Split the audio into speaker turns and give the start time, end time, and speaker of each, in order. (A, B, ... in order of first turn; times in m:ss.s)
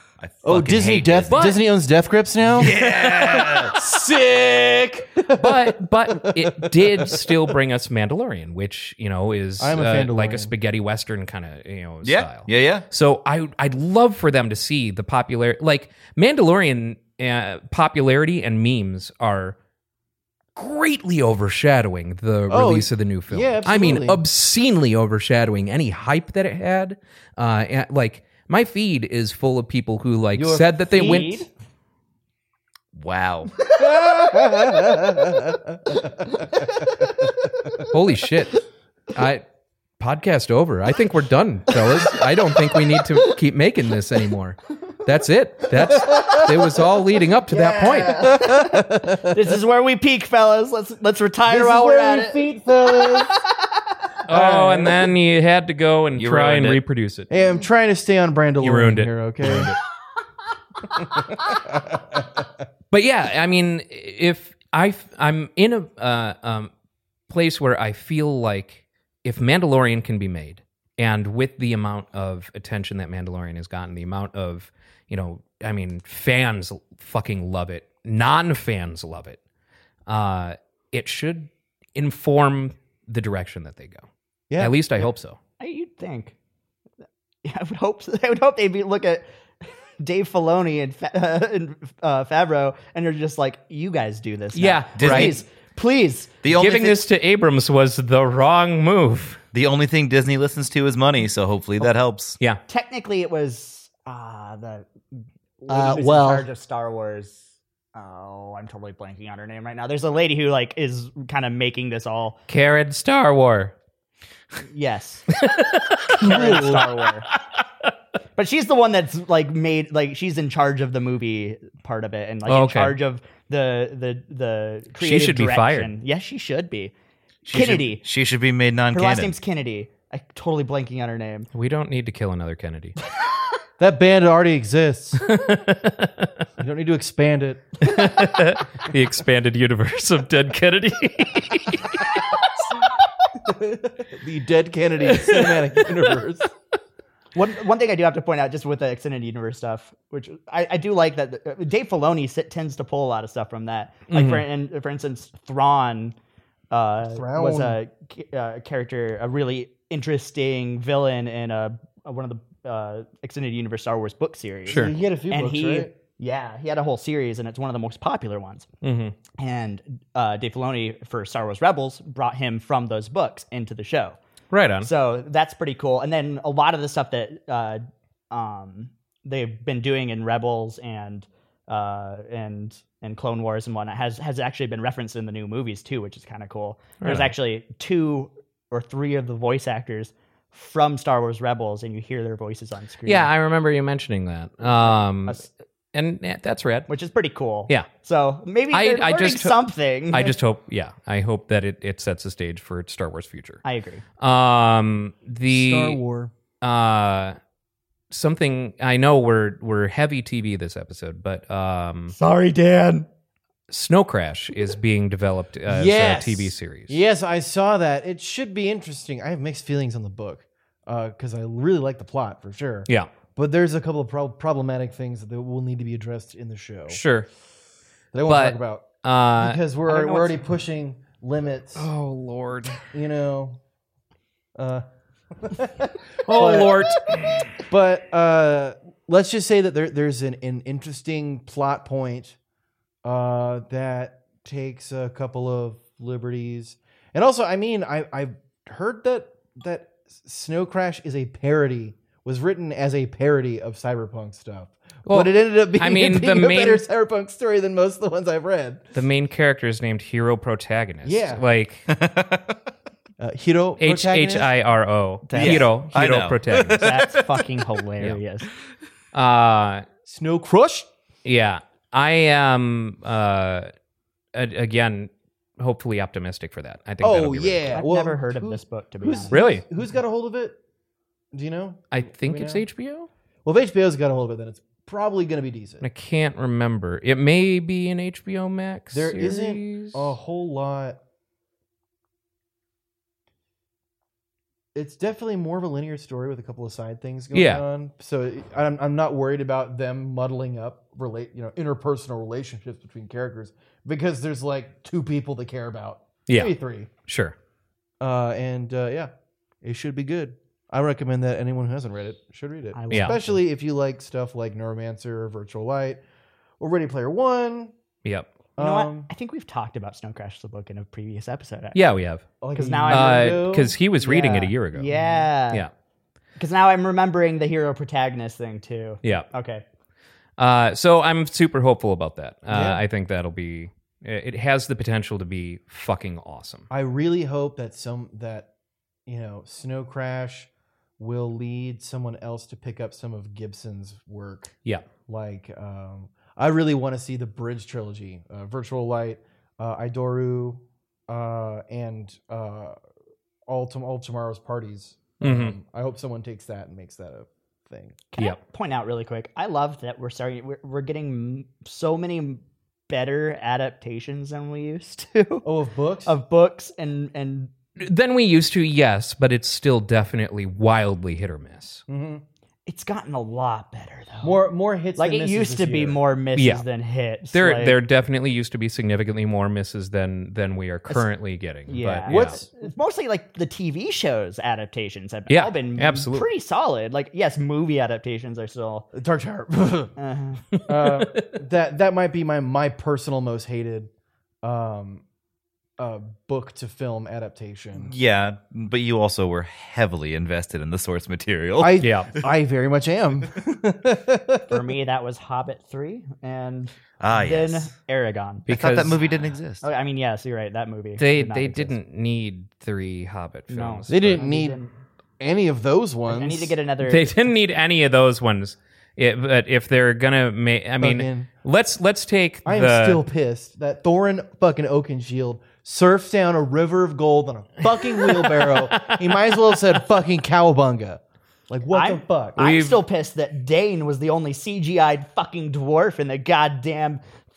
0:00.2-0:01.6 A
0:00.4-0:07.2 B
0:01.2-0:01.6 C
0:02.6-0:03.8 A
0:05.3-0:19.6 C
0:09.6-0:10.5 B
0:12.0-0:12.8 A
0:20.6-0:31.4 C
0:22.5-0:24.2 B
0:30.4-0:31.4 B
0:30.9-0:31.4 D
0:32.9-0:33.5 A
0:33.8-0:37.8 B
0:37.9-0:38.6 C
0:39.1-0:39.4 C
0:40.0-0:48.3 C
0:45.8-0:46.5 B
0:47.5-0:53.6 D
0:48.0-0:49.6 B
0:51.4-0:53.3 B
0:54.3-0:57.3 C
0:54.3-0:55.1 B
0:56.2-0:56.8 A
0:57.3-0:59.7 B
0:58.6-0:59.7 C
1:01.0-1:02.4 B
1:02.9-1:06.7 C
1:07.3-1:19.4 C
1:20.1-1:24.0 C
1:24.5-1:25.1 B
1:24.6-1:25.4 C
1:25.6-1:26.3 D
1:27.4-1:29.2 D
1:30.0-1:36.4 D
1:34.5-1:35.4 C
1:35.0-1:35.4 A
1:36.4-1:37.0 A
1:36.5-1:39.4 C
1:39.5-1:42.4 A
1:42.7-1:44.9 D
1:45.6-1:47.4 D
1:45.7-1:46.4 B
1:47.9-1:52.4 D
1:52.5-1:53.7 C
1:54.7-1:55.3 D
1:55.4-1:56.8 C
1:56.2-1:57.2 D
1:56.2-1:56.9 B
1:57.4-1:57.6 C
1:58.4-2:06.9 D
2:02.4-2:03.0 C
2:05.0-2:05.9 C
2:07.4-2:09.3 A
2:07.5-2:08.0 D
2:08.9-2:11.5 D
2:11.5-2:13.0 C
2:13.8-2:15.3 B
2:15.2-2:16.4 C
2:16.6-2:18.3 B
2:17.8-2:22.2 C
2:23.4-2:26.5 B
2:25.1-2:25.6 C
2:27.3-2:36.2 D
2:34.1-2:34.4 C
2:36.7-2:48.7 D
2:37.0-2:37.8 B
2:44.6-2:44.9 C
2:44.7-2:45.9 B
2:48.8-2:49.1 C
2:49.4-2:54.2 D
2:54.5-2:54.9 C
2:54.8-3:13.3 D
3:07.0-3:07.3 C
3:13.0-3:15.4 C
3:14.6-3:15.5 D
3:15.9-3:16.9 C
3:16.9-3:20.3 D
3:18.7-3:19.6 C
3:20.1-3:23.6 C
3:23.6-3:24.0 D
3:24.2-3:26.0 C
3:25.5-3:26.3 B
3:26.6-3:27.4 C
3:28.1-3:32.1 C
3:32.1-3:33.1 D
3:33.7-3:37.0 C
3:35.7-3:47.0 B
3:46.9-3:47.3 C
3:48.1-3:51.9 B
3:48.2-3:50.4 C
3:51.8-3:52.8 C
3:52.9-3:53.6 B
3:54.6-3:56.9 B
3:56.2-3:57.5 C
3:57.6-4:02.4 B
4:03.0-4:18.8 B
4:15.0-4:16.8 C
4:18.9-4:21.9 C
4:21.0-4:21.4 B
4:21.9-4:22.4 A
4:23.2-4:24.5 B
4:23.8-4:26.9 C
4:25.3-4:25.7 D
4:25.3-4:27.7 A
4:26.8-4:28.5 D
4:29.1-4:29.9 C
4:30.0-4:30.9 B
4:31.2-4:33.7 C
4:34.3-4:37.8 C
4:37.0-4:40.6 B
4:37.7-4:39.5 D
4:39.3-4:39.6 C
4:41.3-4:42.6 B
4:41.9-4:43.1 C
4:43.4-4:45.8 B
4:45.8-4:50.1 C
4:48.9-4:51.0 B
4:54.7-5:06.9 B
4:57.3-4:57.6 C
5:06.3-5:06.6 C
5:07.0-5:07.3 C
5:08.0-5:09.1 B
5:09.6-5:16.0 B
5:12.7-5:13.4 D
5:12.9-5:13.2 C
5:16.6-5:17.7 B
5:18.6-5:19.1 B
5:18.6-5:21.8 D
5:21.7-5:22.3 C
5:22.4-5:25.3 B
5:22.6-5:23.4 D
5:22.9-5:24.9 C
5:24.7-5:25.6 D
5:26.4-5:29.6 D
5:29.0-5:29.3 C
5:30.4-5:36.7 C
5:32.5-5:32.8 B
5:36.7-5:38.5 B
5:39.0-5:44.6 B
5:45.1-5:52.8 B
5:53.5-5:58.0 B
5:55.2-5:55.6 C
5:58.1-6:05.4 D
6:05.4-6:06.2 B
6:06.0-6:07.5 D
6:07.8-6:11.8 C
6:11.9-6:12.2 B
6:12.6-6:14.4 D
6:14.2-6:16.0 B
6:15.0-6:17.8 D
6:16.3-6:16.6 C
6:17.3-6:22.4 C
6:21.7-6:28.9 D
6:22.1-6:22.5 B
6:25.3-6:26.3 C
6:28.9-6:29.9 B
6:30.0-6:30.4 D
6:30.6-6:31.2 C
6:30.6-6:33.9 B
6:34.4-6:35.0 B
6:35.8-6:37.9 B
6:37.8-6:41.8 A
6:41.6-6:44.7 B
6:41.8-6:42.1 C
6:44.5-6:48.4 D
6:47.0-6:47.7 A
6:48.5-6:49.0 C
6:48.5-6:49.7 A
6:49.6-6:51.7 D
6:51.0-6:54.2 C
6:53.5-6:54.7 D
6:53.9-6:54.6 B
6:55.2-6:56.6 B
6:56.1-6:57.1 D
6:56.8-7:03.0 C
7:00.8-7:01.3 B
7:02.4-7:12.4 B
7:08.0-7:09.4 C
7:11.7-7:17.0 D
7:12.4-7:12.8 C